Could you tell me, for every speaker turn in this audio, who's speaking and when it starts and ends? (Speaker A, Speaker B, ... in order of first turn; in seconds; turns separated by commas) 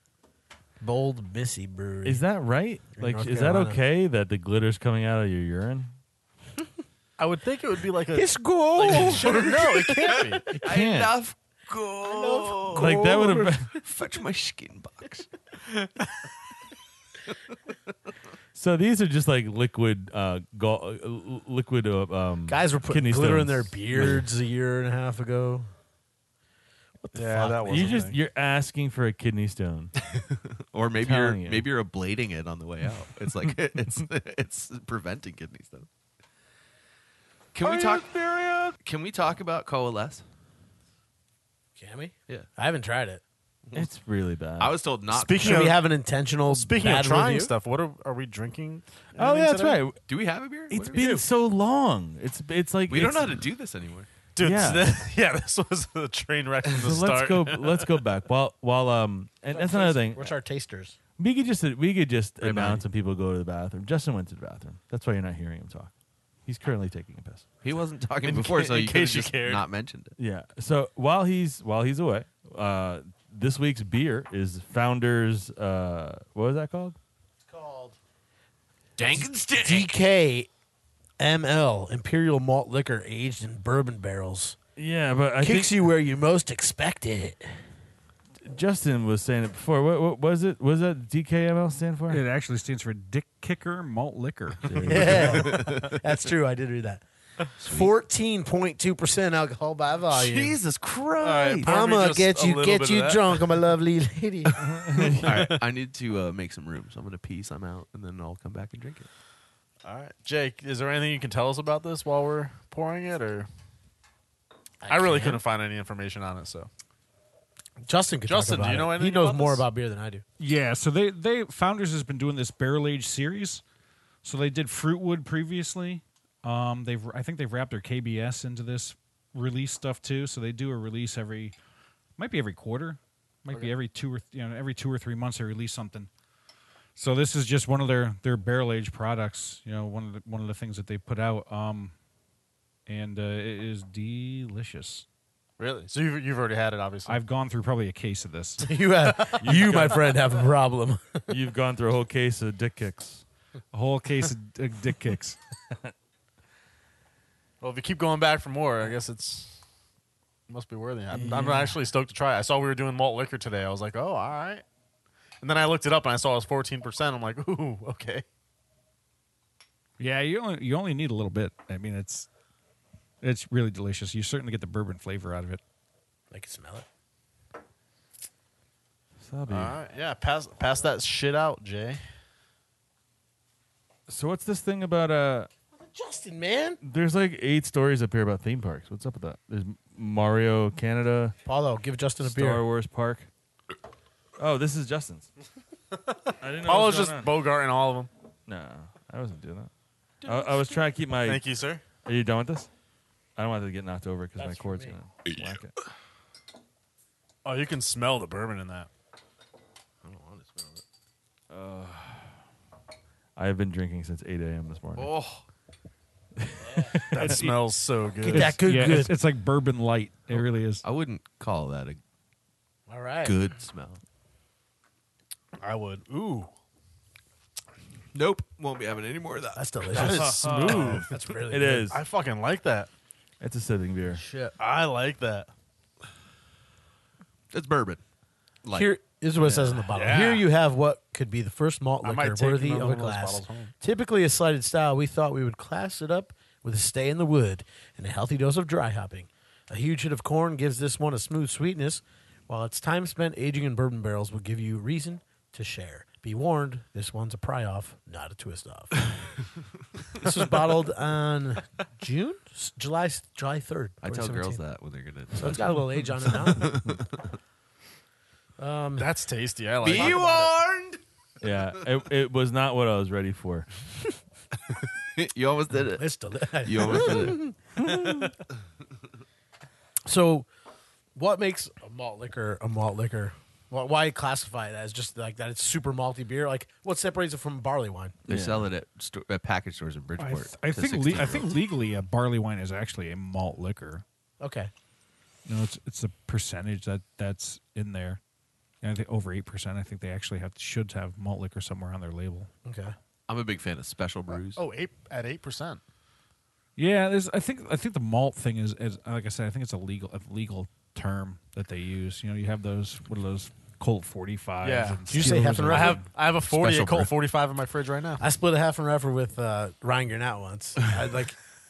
Speaker A: 0.8-2.2, Speaker B: 2.0-5.9, Speaker A: 3.0-3.8, Speaker C: 7.2-10.5, Speaker A: 8.1-10.1, Speaker D: 10.0-12.9, Speaker B: 10.5-11.1, Speaker A: 12.0-13.6, Speaker B: 12.7-13.7, Speaker D: 13.6-15.3, Speaker B: 18.5-24.3, Speaker A: 22.5-25.7, Speaker A: 27.0-28.0, Speaker C: 27.1-28.2, Speaker B: 27.6-29.9, Speaker D: 30.7-35.9, Speaker B: 31.0-31.7, Speaker D: 37.5-38.1, Speaker B: 37.6-38.8, Speaker D: 38.8-40.2, Speaker A: 41.8-43.2, Speaker B: 43.7-44.8, Speaker D: 44.6-45.7, Speaker C: 45.1-45.9, Speaker A: 45.4-47.5, Speaker C: 46.5-49.8, Speaker B: 49.1-50.0, Speaker D: 50.1-51.0, Speaker B: 50.7-53.4, Speaker A: 50.9-51.2, Speaker D: 52.9-54.1, Speaker C: 54.4-57.9, Speaker B: 54.4-54.9, Speaker B: 56.8-60.3, Speaker A: 59.5-61.0, Speaker B: 61.2-65.9, Speaker D: 62.4-62.8, Speaker B: 66.5-67.5, Speaker D: 67.6-70.2, Speaker C: 68.2-69.6, Speaker B: 70.2-77.0, Speaker A: 77.5-78.0, Speaker D: 79.0-79.9, Speaker A: 79.2-80.5, Speaker A: 81.2-84.6, Speaker B: 84.8-85.7, Speaker A: 85.4-87.5, Speaker B: 88.4-92.2, Speaker E: 92.1-95.3, Speaker B: 94.6-95.5, Speaker A: 94.9-97.0, Speaker D: 95.0-96.0, Speaker A: 97.6-100.5, Speaker D: 97.6-97.9, Speaker D: 100.1-101.8, Speaker C: 101.2-103.5, Speaker A: 101.6-104.6, Speaker B: 104.6-105.3, Speaker C: 104.9-105.6, Speaker D: 105.1-109.1, Speaker C: 109.8-113.5, Speaker A: 114.8-115.4, Speaker C: 114.9-116.7, Speaker A: 117.8-120.2, Speaker C: 118.3-119.6, Speaker E: 120.4-123.6, Speaker E: 124.2-131.5, Speaker E: 132.2-136.1, Speaker E: 136.9-141.9, Speaker E: 142.9-145.0, Speaker C: 145.6-147.2, Speaker E: 147.1-148.6, Speaker A: 148.6-151.2, Speaker B: 149.4-150.2, Speaker B: 151.3-153.2, Speaker E: 153.7-155.4, Speaker C: 157.6-159.6, Speaker C: 160.5-164.6, Speaker B: 161.1-161.7, Speaker E: 161.2-161.6, Speaker C: 165.4-168.2, Speaker E: 170.0-172.3, Speaker E: 173.2-175.6, Speaker A: 176.3-176.8, Speaker B: 179.2-179.8, Speaker C: 179.5-182.0, Speaker B: 184.1-185.5, Speaker A: 185.8-186.8, Speaker B: 186.8-191.3, Speaker A: 191.4-192.6, Speaker B: 192.2-193.3, Speaker B: 194.4-195.3, Speaker B: 196.4-197.3, Speaker C: 196.6-198.1, Speaker B: 198.5-199.7, Speaker B: 200.2-201.4, Speaker C: 201.2-201.8, Speaker B: 202.0-202.7, Speaker B: 203.3-205.7, Speaker A: 204.4-204.9, Speaker C: 207.4-208.9, Speaker D: 210.0-210.8, Speaker B: 211.5-212.3, Speaker B: 213.3-215.1, Speaker D: 214.9-215.4, Speaker B: 216.4-217.4, Speaker C: 217.1-218.6, Speaker E: 217.2-217.6, Speaker E: 218.2-220.8, Speaker A: 218.2-219.1, Speaker D: 220.8-222.0, Speaker A: 222.9-223.4, Speaker D: 223.2-224.0, Speaker C: 225.6-226.5, Speaker D: 228.1-229.6, Speaker A: 229.6-231.9, Speaker C: 229.9-231.1, Speaker B: 230.1-232.0, Speaker C: 231.9-232.9, Speaker B: 233.4-234.2, Speaker A: 234.1-234.5, Speaker C: 234.6-235.5, Speaker D: 237.5-238.0, Speaker D: 238.6-238.9, Speaker A: 238.7-259.0, Speaker C: 239.9-240.5, Speaker C: 242.0-243.7, Speaker A: 260.1-264.6, Speaker D: 264.0-267.2, Speaker A: 265.3-266.8, Speaker A: 268.6-269.1, Speaker C: 269.0-270.5, Speaker D: 269.8-271.0, Speaker A: 269.9-270.4, Speaker B: 271.4-273.7, Speaker D: 274.7-276.0, Speaker A: 276.0-278.3, Speaker D: 276.6-277.4, Speaker B: 277.9-278.3, Speaker A: 280.1-280.5, Speaker A: 281.1-288.1, Speaker D: 288.3-291.5, Speaker B: 288.3-288.7, Speaker E: 290.2-294.0, Speaker A: 294.4-294.7, Speaker E: 295.4-298.2, Speaker E: 298.8-302.5, Speaker A: 302.6-302.9, Speaker D: 303.3-304.6, Speaker C: 304.3-305.8, Speaker E: 306.8-316.1, Speaker C: 314.6-318.2, Speaker A: 315.1-316.0, Speaker D: 316.5-317.1, Speaker B: 316.7-317.0, Speaker A: 318.2-321.4